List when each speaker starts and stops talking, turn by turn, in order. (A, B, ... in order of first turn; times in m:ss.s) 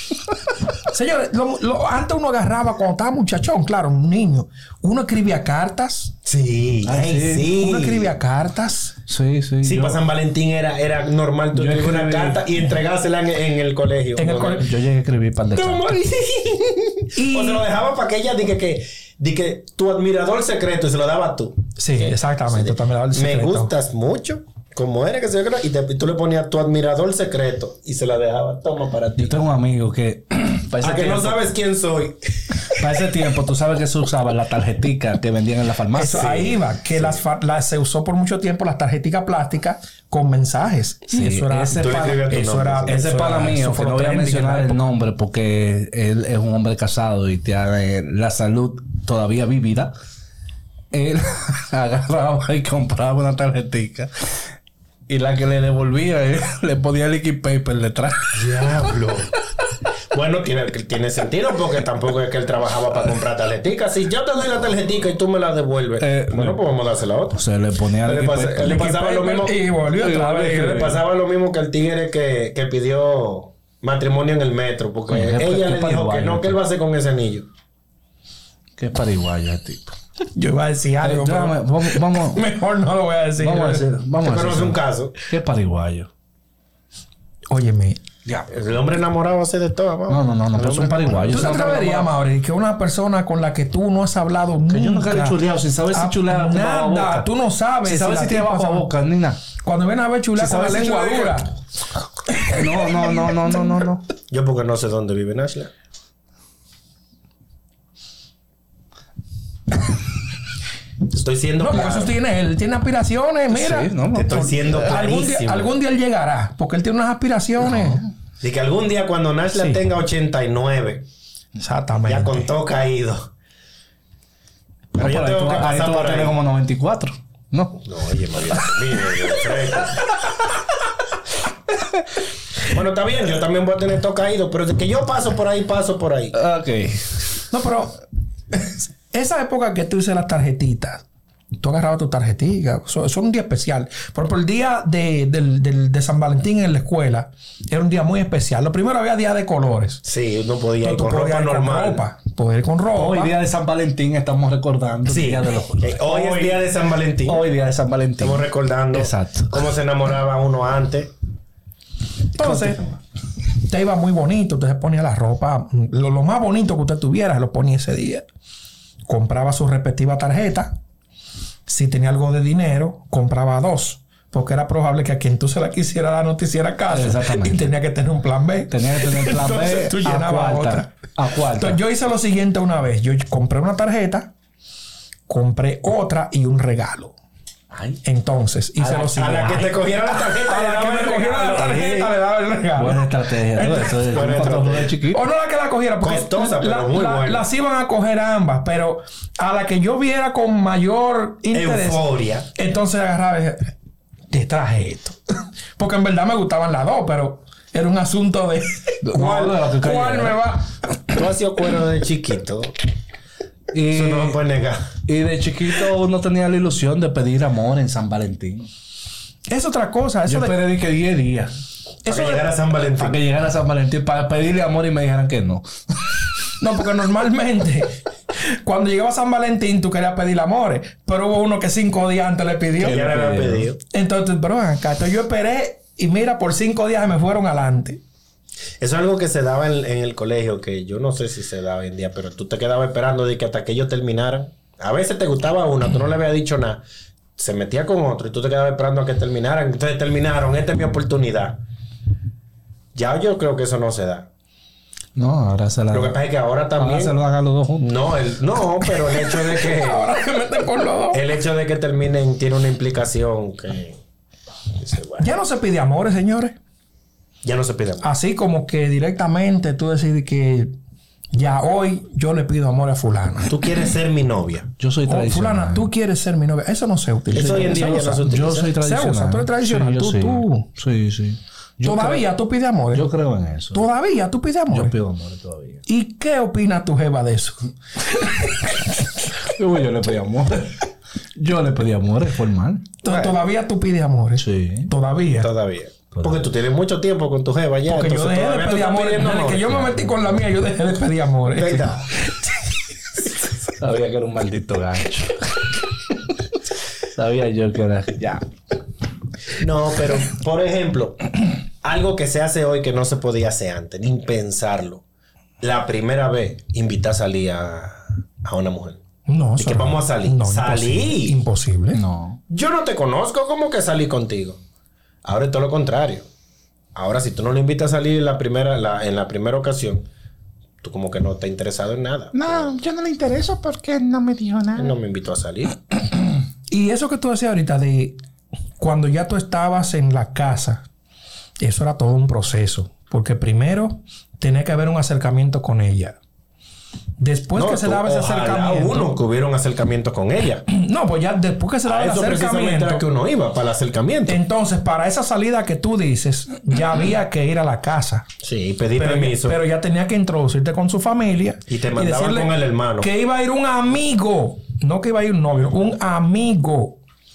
0:00.9-0:06.1 A
0:06.2-0:08.1 B
0:06.8-0:07.5 C
0:07.5-0:09.0 A
0:09.1-0:10.0 C
0:09.6-0:14.7 B
0:11.5-0:12.5 C
0:14.2-0:14.6 A
0:14.6-0:16.0 C
0:15.6-0:29.5 B
0:17.1-0:17.6 A
0:21.8-0:23.7 A
0:29.2-0:31.4 C
0:30.8-0:32.8 B
0:32.7-0:36.3 C
0:36.0-0:44.8 A
0:36.0-0:37.2 B
0:41.1-0:42.2 C
0:41.8-0:43.5 B
0:42.9-0:49.9 C
0:50.9-0:54.1 C
0:55.1-0:58.6 C
0:58.3-0:59.3 B
1:00.1-1:07.4 B
1:06.0-1:06.6 C
1:07.3-1:08.9 C
1:08.0-1:09.6 B
1:08.6-1:10.9 A
1:09.9-1:11.0 C
1:10.5-1:17.5 B
1:15.1-1:16.6 C
1:18.8-1:19.9 C
1:20.4-1:23.8 A
1:21.0-1:22.4 C
1:23.4-1:26.1 C
1:24.2-1:25.2 B
1:27.5-1:28.0 A
1:28.5-1:31.6 B
1:30.1-1:32.1 C
1:31.3-1:35.4 A
1:34.7-1:37.3 C
1:35.9-1:38.9 A
1:37.8-1:39.4 C
1:39.6-1:41.5 A
1:40.4-1:41.4 C
1:42.4-1:43.5 A
1:42.4-1:44.0 C
1:44.3-1:45.7 B
1:51.1-1:52.2 B
1:51.6-1:58.0 A
1:53.5-1:54.9 C
1:54.1-1:55.7 B
1:57.7-1:58.0 C
1:58.4-2:01.0 B
1:59.5-1:59.8 A
2:01.6-2:02.5 A
2:02.1-2:03.3 B
2:05.0-2:06.4 B
2:05.0-2:07.8 C
2:07.8-2:10.1 B
2:08.5-2:10.5 C
2:12.7-2:16.4 B
2:16.3-2:17.2 C
2:17.5-2:18.0 A
2:18.5-2:21.0 A
2:21.6-2:30.0 A
2:30.0-2:32.0 B
2:30.8-2:33.3 A
2:33.0-2:36.5 C
2:35.1-2:37.5 B
2:37.2-2:39.6 C
2:38.2-2:41.1 B
2:42.4-2:42.8 A
2:42.4-2:43.0 C
2:43.6-2:48.2 A
2:49.1-2:50.7 A
2:51.7-3:01.0 A
2:56.9-2:57.7 C
2:58.7-3:01.8 C
3:01.5-3:04.3 A
3:05.3-3:07.2 A
3:07.7-3:08.0 C
3:08.0-3:14.4 A
3:08.8-3:12.2 B
3:12.8-3:15.2 C
3:13.6-3:14.9 B
3:15.1-3:23.7 A
3:16.0-3:17.5 B
3:21.5-3:22.5 B
3:24.3-3:25.2 A
3:25.8-3:30.7 A
3:29.0-3:30.4 C
3:31.1-3:32.7 B
3:33.7-3:34.4 C
3:33.9-3:34.9 B
3:35.1-3:38.7 C
3:39.5-3:40.6 A
3:40.3-3:41.5 C
3:42.0-3:42.6 A
3:42.1-3:43.2 B
3:43.0-3:46.1 C
3:46.6-3:53.1 A
3:52.8-3:53.8 B
3:52.8-3:53.7 C
3:53.9-3:58.0 A
3:58.8-4:06.8 B
4:07.4-4:11.6 B
4:13.0-4:14.3 B
4:15.2-4:16.2 C
4:15.9-4:17.2 B
4:16.8-4:17.9 C
4:17.8-4:20.1 B
4:19.2-4:21.2 A
4:21.1-4:24.0 B
4:24.8-4:25.3 B
4:25.2-4:26.6 A
4:27.4-4:28.1 B
4:28.0-4:30.8 A
4:31.3-4:33.7 A
4:33.5-4:34.7 B
4:34.8-4:35.9 C
4:35.1-4:38.2 A
4:37.3-4:38.7 B
4:37.3-4:42.3 C
4:38.8-4:40.7 A
4:41.8-4:43.0 A
4:42.9-4:43.9 C
4:43.7-4:45.0 A
4:44.7-4:45.8 C
4:45.9-4:48.9 A
4:49.5-4:50.8 C
4:51.4-4:53.0 C
4:53.0-4:55.5 A
4:53.1-4:53.4 B
4:54.4-4:54.9 C
4:55.4-4:59.9 B
4:56.1-4:56.4 C
4:57.9-5:02.7 A
5:01.5-5:02.1 B
5:03.8-5:05.6 C
5:07.2-5:08.4 C
5:09.6-5:11.2 B
5:11.8-5:15.0 B
5:15.6-5:19.0 B
5:19.3-5:22.0 A
5:19.6-5:21.4 B
5:21.9-5:22.4 C
5:22.5-5:24.6 B
5:25.2-5:26.3 B
5:27.0-5:30.1 B
5:30.8-5:32.8 B
5:32.3-5:34.9 C
5:34.8-5:35.8 B
5:36.7-5:38.2 A
5:38.8-5:40.8 A
5:41.6-5:46.2 A
5:47.2-5:49.2 A
5:47.6-5:50.6 B
5:50.7-5:53.1 A
5:51.9-5:54.4 B
5:54.3-5:58.3 A
5:58.4-5:59.6 B
5:59.0-6:07.0 A
6:01.7-6:03.1 B